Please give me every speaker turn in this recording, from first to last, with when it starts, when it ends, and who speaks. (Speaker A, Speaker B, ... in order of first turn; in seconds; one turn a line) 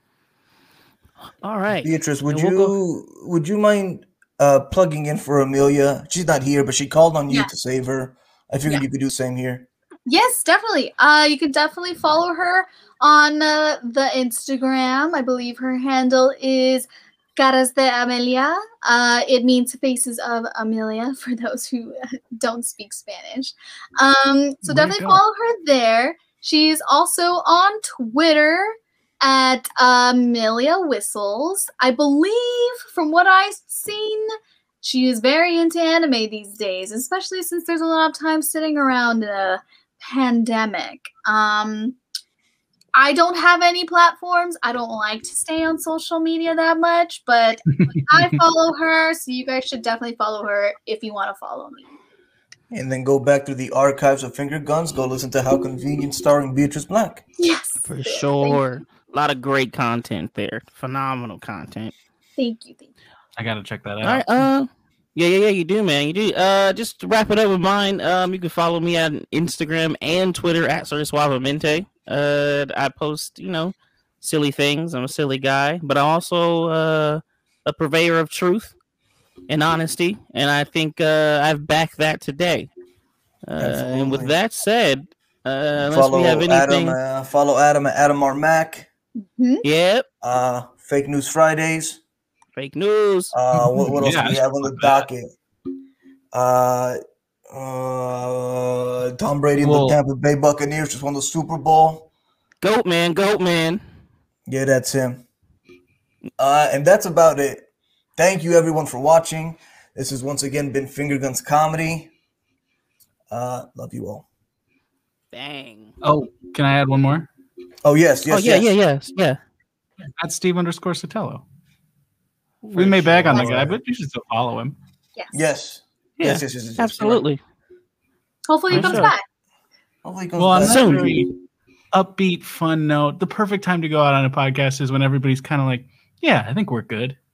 Speaker A: 1.4-2.8
Speaker B: 1.8-9.7
Speaker C: 10.1-34.3
Speaker D: 24.6-25.2
Speaker C: 34.8-42.0
Speaker C: 43.0-51.9
Speaker D: 47.7-48.4
Speaker B: 52.7-57.2
Speaker C: 57.4-58.6
Speaker A: 57.9-61.9
Speaker C: 62.4-62.9
Speaker D: 63.4-64.5
Speaker A: 64.0-78.7
Speaker A: 79.5-82.7
Speaker A: 83.5-87.0
Speaker B: 83.6-84.3
Speaker B: 85.8-88.9
Speaker C: 89.2-89.6
Speaker A: 89.6-90.1
Speaker B: 90.2-92.0
Speaker A: 92.6-93.3
Speaker B: 93.3-95.3
Speaker D: 93.5-95.1
Speaker B: 96.3-97.0
Speaker B: 97.5-102.1
Speaker D: 99.6-100.0
Speaker A: 102.6-103.8
Speaker B: 104.5-105.2
Speaker B: 106.4-107.6
Speaker B: 108.2-112.1
Speaker B: 113.3-114.3
Speaker A: 115.3-115.9
Speaker D: 116.0-117.3
Speaker B: 117.8-118.7
Speaker A: 118.3-119.4
Speaker D: 120.2-121.4
Speaker D: 122.7-124.8
Speaker A: 122.7-123.1
Speaker B: 122.8-123.8
Speaker B: 125.3-127.2
Speaker A: 126.2-127.4
Speaker C: 128.5-129.2
Speaker A: 128.7-129.1
Speaker D: 128.7-129.1
Speaker B: 130.0-131.2
Speaker D: 130.4-131.3
Speaker A: 130.6-131.2
Speaker D: 131.9-137.2